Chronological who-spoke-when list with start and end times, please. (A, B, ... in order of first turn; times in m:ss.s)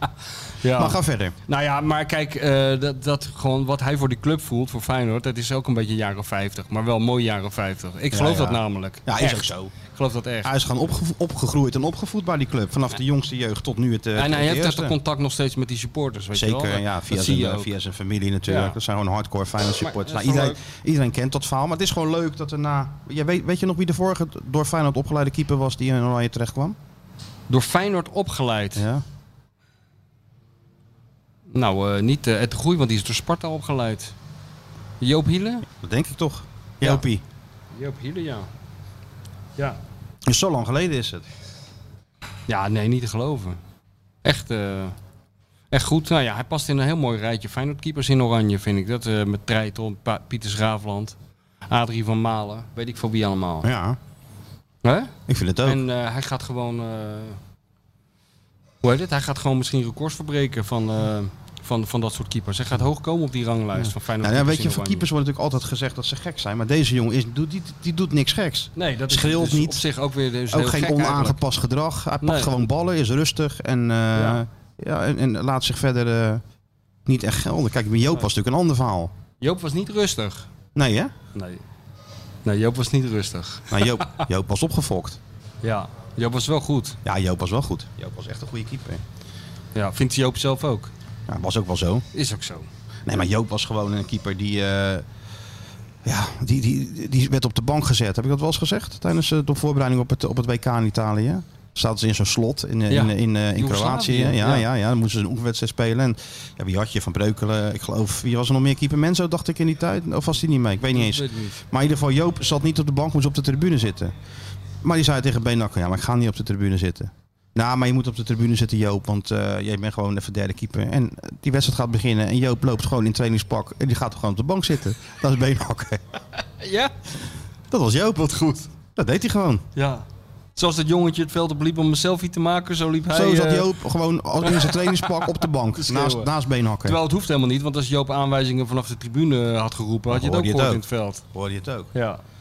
0:00.6-0:10.5 A
0:00.7-0:01.3 B
0:08.1-0:09.7 B
0:10.4-0:15.0 B
0:14.2-0:17.7 A
0:16.3-0:26.8 B
0:18.5-0:18.8 A
0:19.8-0:20.6 A
0:27.5-0:28.8 A
0:28.8-0:29.0 B
0:31.5-0:34.1 A
0:35.0-0:35.6 A
0:35.8-0:37.2 B
0:37.7-0:38.5 A
0:40.3-0:41.2 B
0:42.5-0:43.6 A
0:44.2-0:44.9 A
0:45.7-0:51.2 A
0:51.7-0:53.7 A
0:53.6-0:54.0 B
0:54.8-0:55.1 A
0:55.3-0:55.8 B
0:55.6-0:57.4 A
0:58.8-1:05.0 A
1:03.8-1:09.8 B
1:08.8-1:11.4 A
1:10.5-1:16.4 B
1:12.2-1:12.5 A
1:14.1-1:14.4 A
1:17.0-1:19.1 B
1:19.4-1:20.5 A
1:20.7-1:21.1 B
1:21.3-1:21.6 A
1:22.4-1:24.2 A
1:23.7-1:25.2 B
1:25.6-1:27.0 A
1:27.0-1:29.0 B
1:29.7-1:30.9 A
1:31.3-1:32.0 B
1:32.1-1:32.7 A
1:33.0-1:35.0 B
1:36.0-1:54.1 B
1:42.9-1:44.6 A
1:50.9-1:51.6 A
1:54.8-2:06.0 B
2:06.6-2:06.9 A
2:07.7-2:09.6 B
2:09.8-2:13.7 A
2:13.1-2:17.0 B
2:14.4-2:16.3 A
2:16.8-2:21.2 A
2:20.1-2:21.9 B
2:21.9-2:22.2 A